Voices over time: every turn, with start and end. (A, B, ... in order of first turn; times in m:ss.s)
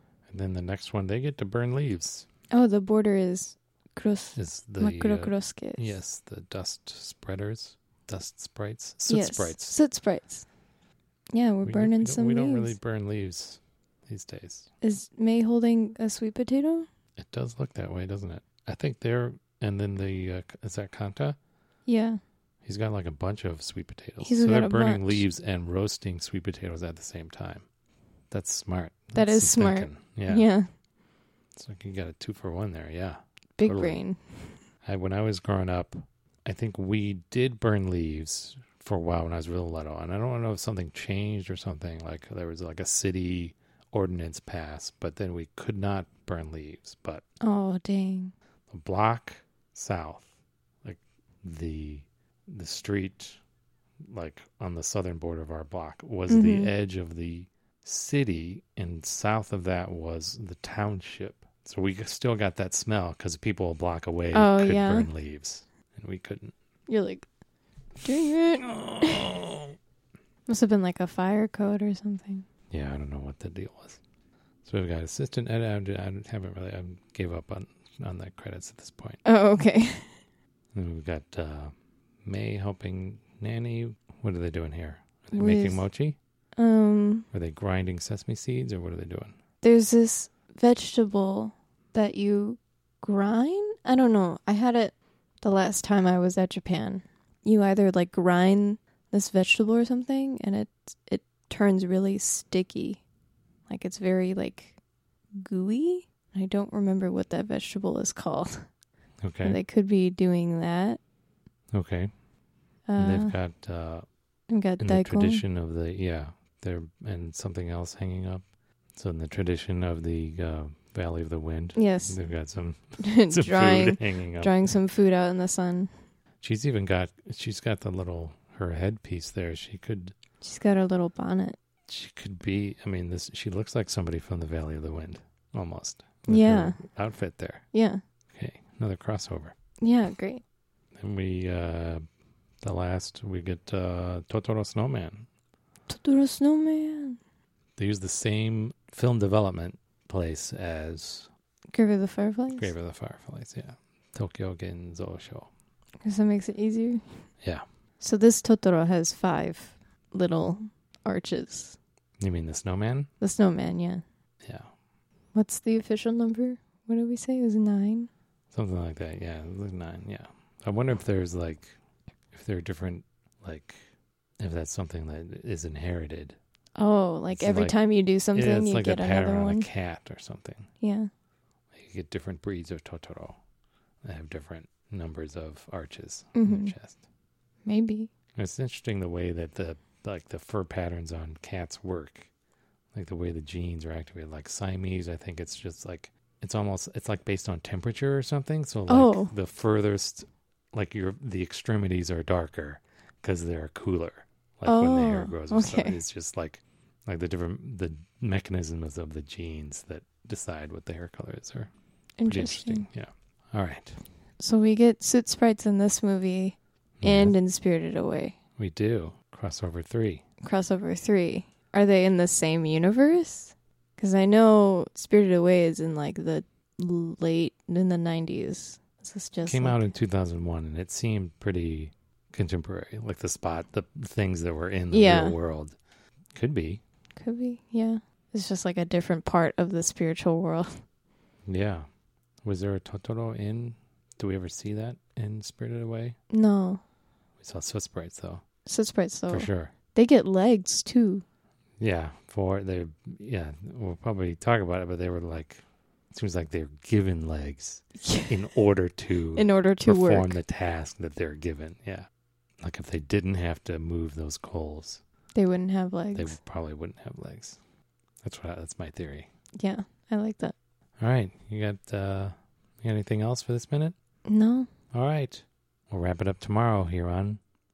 0:00.3-0:02.3 A
0:02.5-0:06.0 B
0:04.4-0:09.8 A
0:09.1-0:10.4 B
0:11.3-0:12.8 B
0:11.6-0:14.7 A
0:14.8-0:16.9 B
0:17.2-0:21.4 A
0:21.9-0:22.2 B
0:22.6-0:27.6 A
0:24.2-0:25.2 B
0:28.3-0:30.5 A
0:29.2-0:30.7 B
0:31.6-0:34.0 A
0:33.6-0:34.6 B
0:34.8-0:47.2 A
0:47.4-0:48.3 B
0:48.7-0:50.3 A
0:50.8-0:53.4 A
0:54.1-1:06.5 A
0:56.3-0:56.7 B
1:04.3-1:05.1 B
1:06.9-1:07.3 B
1:08.0-1:09.4 B
1:08.6-1:09.6 A
1:10.5-1:12.5 B
1:12.7-1:14.0 A
1:14.6-1:19.2 A
1:19.2-1:20.2 B
1:20.7-1:21.7 A
1:22.2-1:26.2 A
1:25.3-1:25.8 B
1:26.6-1:27.3 B
1:27.3-1:29.4 A
1:29.6-1:43.0 B
1:43.7-1:44.8 B
1:45.4-1:48.7 B
1:49.2-1:49.6 A
1:49.4-1:51.0 B
1:51.7-1:52.1 A
1:52.9-1:53.4 B
1:53.0-1:54.0 A
1:54.5-1:55.4 B
1:54.8-2:04.6 A
2:01.8-2:02.2 B
2:03.0-2:05.9 B
2:06.4-2:10.2 A
2:10.4-2:11.6 B
2:11.9-2:17.6 A
2:16.3-2:16.8 B
2:17.7-2:18.0 B
2:18.3-2:19.5 A
2:19.8-2:20.4 B
2:21.0-2:22.0 A
2:22.6-2:25.3 A
2:25.9-2:27.2 B
2:27.8-2:31.3 A
2:31.7-2:32.7 B
2:32.6-2:35.5 A
2:36.0-2:37.0 B
2:38.0-2:41.8 B
2:42.2-2:43.1 A
2:43.2-2:44.0 B
2:44.4-2:44.7 A
2:45.3-2:48.1 B
2:48.5-2:51.7 A
2:52.3-2:53.8 A
2:54.4-2:56.4 A
2:56.8-2:59.7 B
2:57.3-2:57.8 A
2:58.3-3:00.7 A
3:00.8-3:01.1 B
3:01.7-3:03.4 A
3:04.0-3:07.0 A
3:06.4-3:06.7 B
3:07.6-3:08.1 B
3:08.4-3:12.3 A
3:12.9-3:31.7 A
3:18.9-3:19.3 B
3:24.6-3:26.0 B
3:32.2-3:32.9 B
3:32.3-3:34.0 A
3:34.4-3:38.4 B
3:37.0-3:37.4 A
3:38.6-3:40.2 A
3:40.4-3:49.8 B
3:49.4-3:55.8 A
3:54.9-3:55.4 B
3:56.4-3:56.8 A
3:57.2-4:00.8 B
4:01.5-4:01.9 A
4:02.4-4:06.2 A
4:06.3-4:06.8 B
4:07.4-4:08.4 A
4:08.7-4:11.2 B
4:09.3-4:09.7 A
4:11.8-4:22.1 A
4:18.0-4:18.4 B
4:19.4-4:20.4 B
4:22.6-4:25.0 A
4:25.4-4:26.4 B
4:26.2-4:27.6 A
4:28.2-4:29.3 A
4:29.6-4:30.5 B
4:31.0-4:34.0 A
4:34.3-4:34.7 B
4:34.9-4:37.4 A